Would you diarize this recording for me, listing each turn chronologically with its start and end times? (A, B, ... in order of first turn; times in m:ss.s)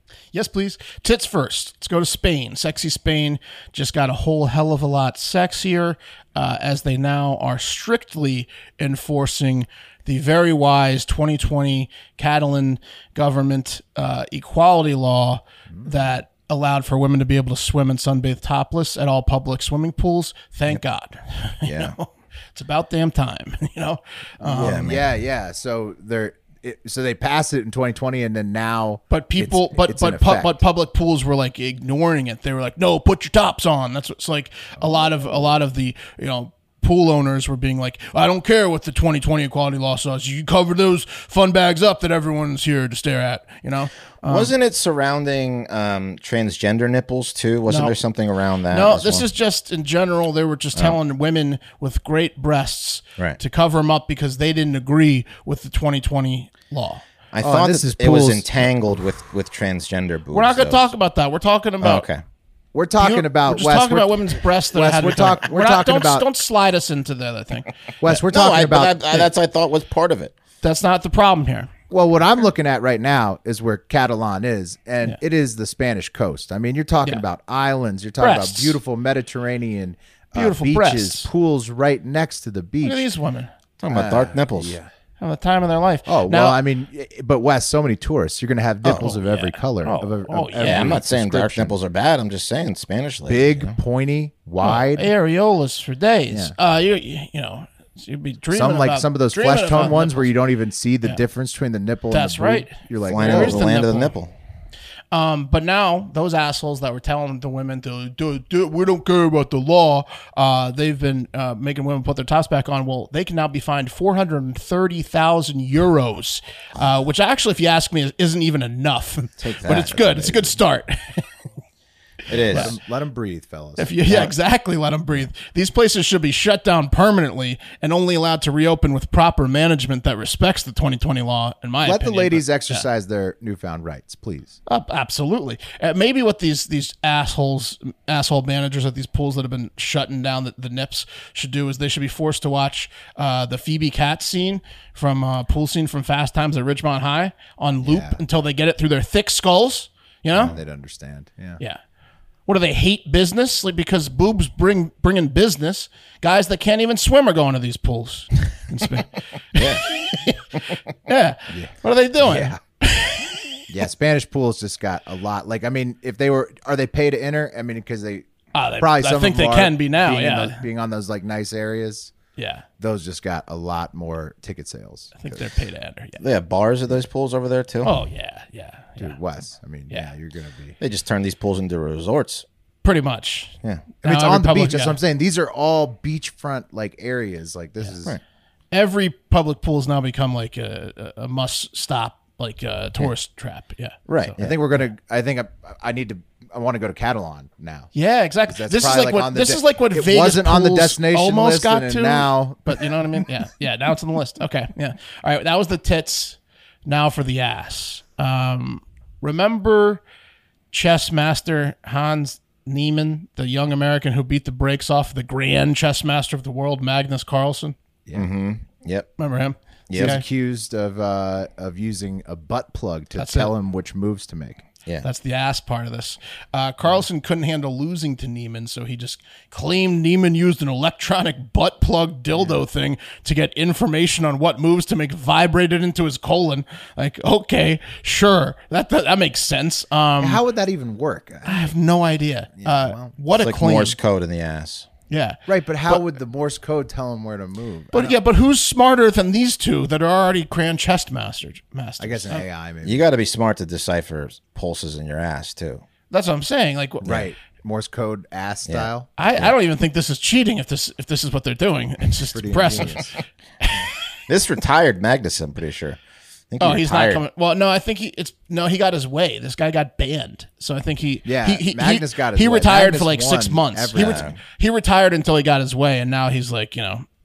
0:00.3-0:24.9 A
0:21.6-0:22.0 B
0:24.4-0:25.1 B
0:24.5-0:30.6 C
0:29.1-0:44.5 A
0:44.2-0:49.2 B
0:47.7-0:48.0 A
0:48.7-0:57.0 A
0:57.3-1:00.9 B
0:57.4-0:58.5 C
1:00.3-1:02.0 A
1:01.8-1:02.2 B
1:02.7-1:06.3 C
1:03.0-1:07.7 A
1:08.0-1:09.1 C
1:08.0-1:10.3 B
1:10.6-1:11.7 A
1:11.9-1:23.0 C
1:18.2-1:18.8 A
1:20.3-1:21.3 A
1:22.8-1:23.5 A
1:23.8-1:24.8 B
1:23.9-1:24.9 C
1:25.2-1:26.6 A
1:26.1-1:31.7 C
1:29.0-1:31.0 A
1:30.6-1:33.8 B
1:33.3-1:35.1 C
1:34.6-1:40.3 A
1:38.5-1:43.6 C
1:42.1-1:44.1 A
1:43.0-1:44.3 B
1:45.1-2:01.3 A
1:59.4-2:00.5 B
2:02.3-2:02.8 B
2:02.4-2:04.3 C
2:02.5-2:02.8 A
2:03.8-2:12.8 A
2:11.8-2:14.6 C
2:14.7-2:30.5 A
2:27.8-2:28.2 C
2:30.4-2:31.6 C
2:32.4-2:43.6 A
2:39.5-2:39.8 B
2:41.5-2:42.6 C
2:43.7-2:52.1 C
2:48.5-2:50.6 A
2:52.4-2:52.6 A
2:52.8-2:55.4 C
2:55.2-2:56.2 A
2:56.2-2:58.0 B
2:57.8-2:59.2 A
2:59.0-3:00.8 C
3:00.8-3:02.4 B
3:02.8-3:05.0 A
3:04.0-3:08.2 C
3:08.7-3:14.4 A
3:14.1-3:14.6 B
3:14.4-3:17.9 C
3:17.9-3:30.0 A
3:18.5-3:22.9 C
3:30.7-3:37.7 A
3:38.1-3:39.1 B
3:39.2-3:40.2 A
3:39.9-3:40.2 B
3:39.9-3:44.6 C
3:43.2-3:43.5 A
3:45.0-4:00.4 A
4:00.2-4:01.7 C
4:01.4-4:04.0 A
4:02.6-4:03.1 C
4:03.4-4:04.9 B
4:05.1-4:06.1 A
4:05.5-4:08.2 C
4:07.9-4:12.4 A
4:12.0-4:13.0 C
4:12.8-4:15.8 B
4:16.1-4:17.1 A
4:17.0-4:19.1 C
4:18.7-4:19.5 B
4:19.2-4:23.1 A
4:22.3-4:23.2 C
4:23.6-4:23.9 A
4:24.3-4:27.2 B
4:26.6-4:37.0 A
4:31.2-4:34.3 C
4:33.9-4:34.4 B